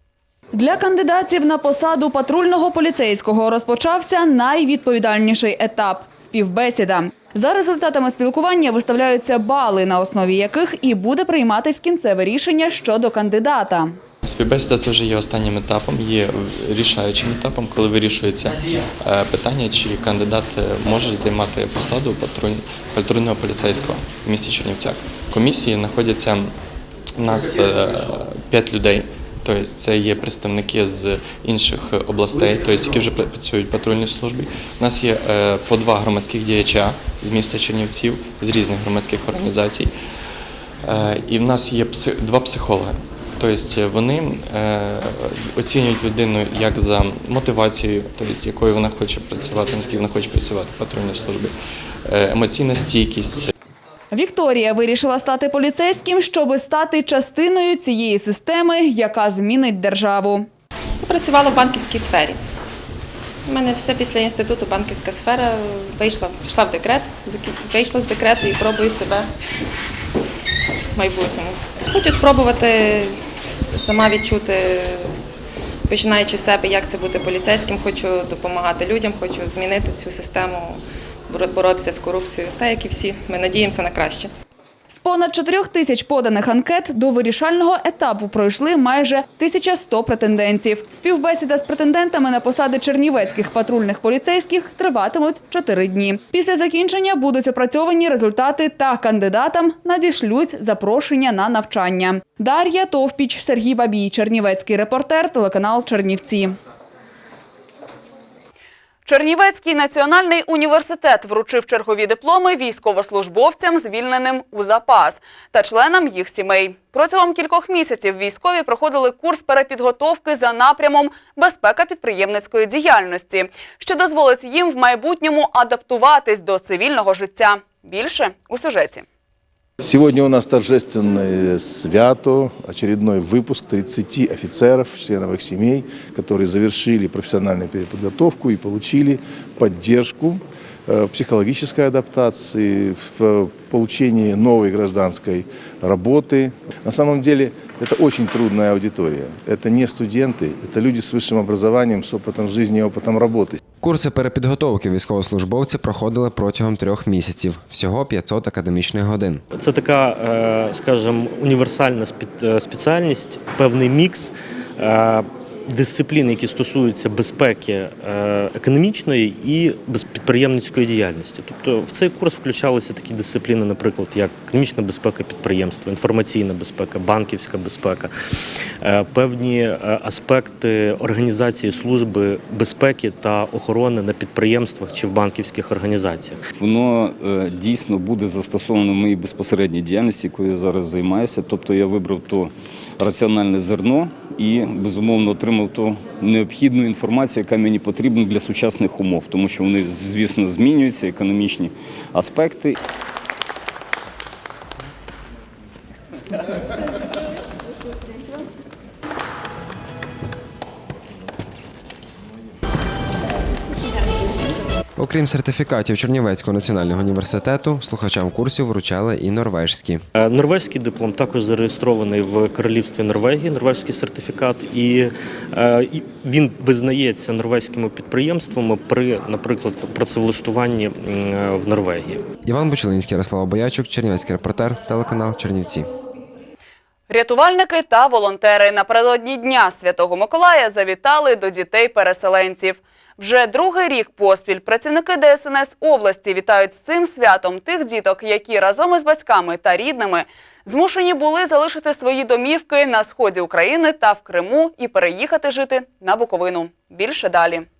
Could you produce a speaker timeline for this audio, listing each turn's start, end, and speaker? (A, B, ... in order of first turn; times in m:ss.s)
0:00.5-0:14.0 A
0:14.2-0:26.6 B
0:27.2-0:39.9 B
0:40.8-0:51.5 B
0:52.0-0:53.5 B
0:54.1-1:00.5 A
1:01.0-1:02.4 C
1:03.5-1:09.3 C
1:10.9-1:24.3 C
1:24.9-1:46.6 A
1:49.0-2:09.0 A
2:09.8-2:33.6 D
2:33.8-2:39.4 E
2:39.5-2:58.1 F
2:58.8-3:06.4 F
3:06.6-3:22.8 G
3:35.0-3:40.0 E
3:40.1-3:52.2 F
3:52.4-3:55.9 E
3:57.1-4:17.6 A